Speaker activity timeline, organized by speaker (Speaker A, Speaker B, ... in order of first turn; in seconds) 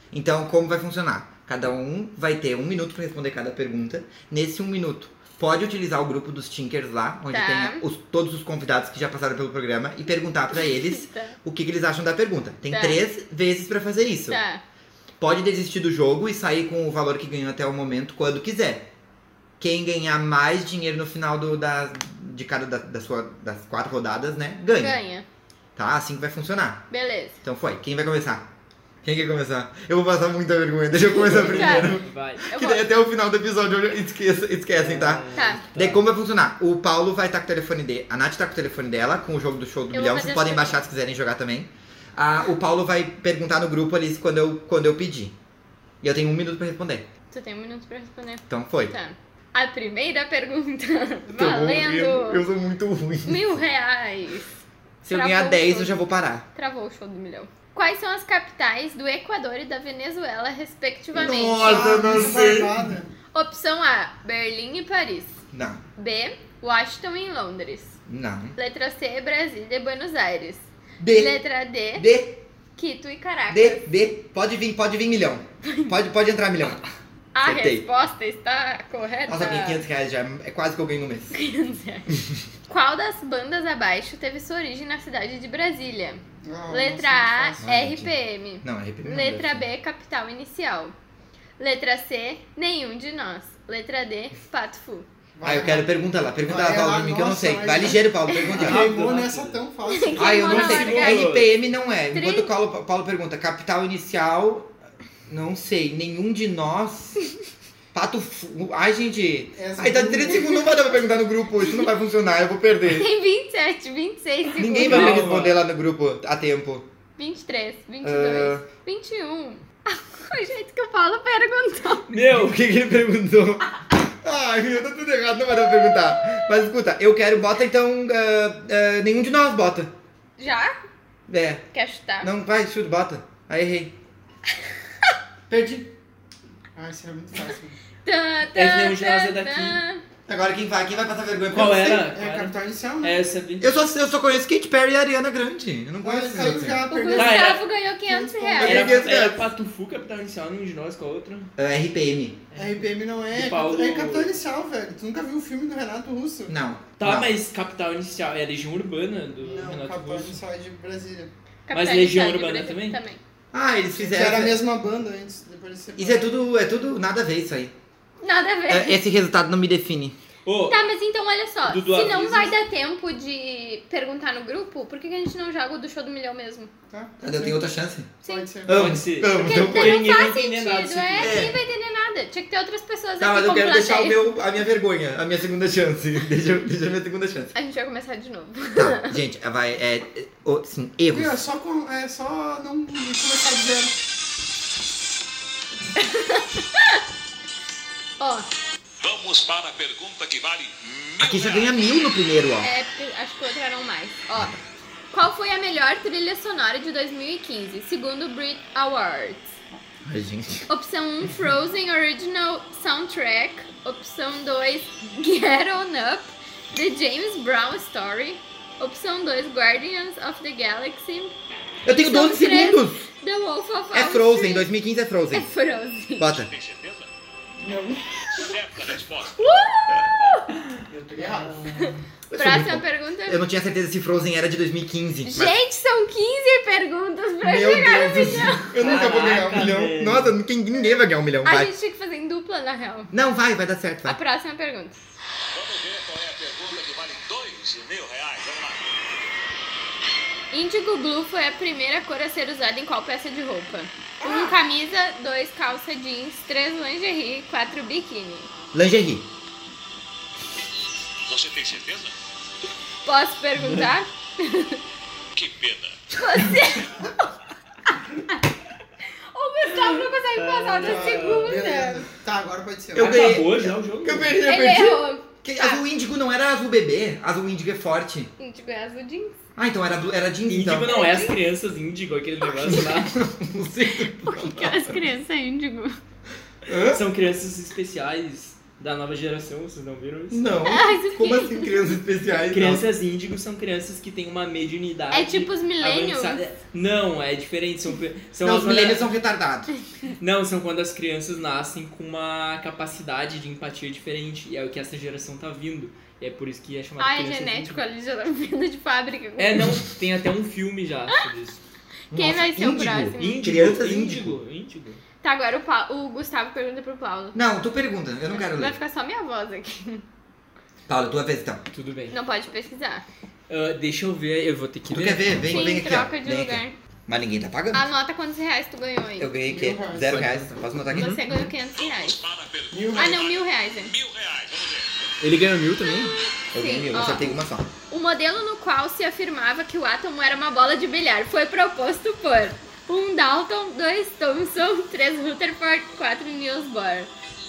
Speaker A: 0.1-14.4, 15.2-18.9, 19.6-25.0, 25.8-26.9, 27.4-28.4, 29.0-45.4, 46.0-47.1, 48.5-48.9, 51.3-53.6, 55.0-56.5, 61.1-62.8, 65.5-65.8, 68.1-68.5, 71.0-71.4, 71.9-72.4, 73.5-76.8, 77.4-77.9, 79.3-81.4, 87.6-89.6, 95.4-98.9, 100.2-104.7, 105.3-107.2, 107.9-113.1, 114.6-116.9, 118.0-118.7, 122.2-129.9, 131.3-131.6, 132.2-134.0, 135.5-135.9, 140.3-142.0, 143.6-146.8, 148.6-149.4, 151.6-152.4, 156.5-157.4, 163.5-164.6, 166.0-167.7, 168.7-170.2, 177.2-178.1, 178.7-180.0, 181.2-181.6, 183.2-187.5, 188.8-191.4, 201.2-202.7, 210.1-210.7, 221.8-223.1, 223.9-225.5, 226.2-226.5, 232.3-235.6, 237.4-241.7, 243.1-244.2, 258.7-259.3, 272.9-278.3, 279.6-280.9, 282.6-285.0, 286.6-287.0, 290.3-292.9, 298.4-299.7, 312.1-314.4, 317.3-318.8, 320.9-321.6, 324.9-327.9, 329.2-331.2, 336.5-337.7
Speaker B: 7.3-7.8, 10.6-11.3, 12.7-13.0, 14.3-14.6, 24.7-25.2, 26.9-27.4, 31.4-32.9, 35.3-35.6, 39.9-40.8, 47.3-52.4, 53.2-54.5, 55.1-56.0, 56.5-61.8, 63.3-65.4, 66.0-68.0, 68.5-72.1, 72.8-73.9, 75.7-75.9, 77.3-79.8, 81.3-82.1, 82.7-90.9, 91.6-95.1, 99.9-101.3, 102.1-102.5, 112.9-115.3, 117.2-122.1, 125.5-126.7, 130.4-130.8, 131.7-132.3, 138.1-140.0, 146.9-148.8, 161.7-163.2, 168.2-169.0, 170.7-176.7, 178.2-178.5, 179.3-184.2, 187.5-189.2, 196.0-197.0, 198.2-198.5, 202.6-204.6, 205.1-209.6, 210.7-221.3, 221.9-224.7, 225.3-226.3, 229.4-230.4, 232.3-233.4, 235.2-238.7, 241.4-243.1, 244.0-245.0, 250.5-258.5, 263.0-264.8, 266.1-267.1, 269.3-272.0, 274.4-275.8, 278.4-279.4, 280.8-281.4, 284.2-286.0, 290.6-291.8, 295.1-296.4, 299.7-300.1, 307.0-309.6, 312.1-313.4, 315.2-317.4, 318.3-320.0, 322.1-323.0, 325.5-326.8, 327.7-329.3, 330.9-332.2, 332.9-333.9, 335.8-347.1
Speaker C: 31.1-32.5, 34.7-36.0, 98.5-99.6, 100.4-101.5, 114.8-115.6, 122.1-122.6, 138.5-139.8, 141.5-143.7, 147.1-147.6, 148.6-151.5, 152.5-154.3, 157.0-160.4, 161.7-163.0, 170.4-170.9, 171.6-172.5, 178.7-181.5, 230.5-231.9, 238.7-240.3, 263.6-263.9, 269.8-271.6, 272.9-274.4, 280.5-283.2, 286.9-290.5, 292.5-299.1, 300.2-307.8, 309.4-311.6, 313.2-315.0, 321.7-322.2, 323.5-325.7, 330.0-331.4, 335.2-336.1
Speaker D: 61.6-63.1, 86.4-87.6, 95.4-100.5, 109.5-110.8, 136.8-137.8, 141.6-143.2, 146.0-149.1, 152.6-156.5, 159.4-161.3, 164.0-166.4, 176.9-177.6, 178.2-178.9, 191.1-193.9, 227.6-228.4, 230.9-231.9, 254.2-254.6, 270.8-273.2, 329.4-330.3, 332.7-333.1
Speaker E: 199.0-202.0, 226.4-227.1, 228.4-229.4, 245.5-248.9, 261.2-262.1, 265.3-266.0, 266.5-266.8, 331.7-334.9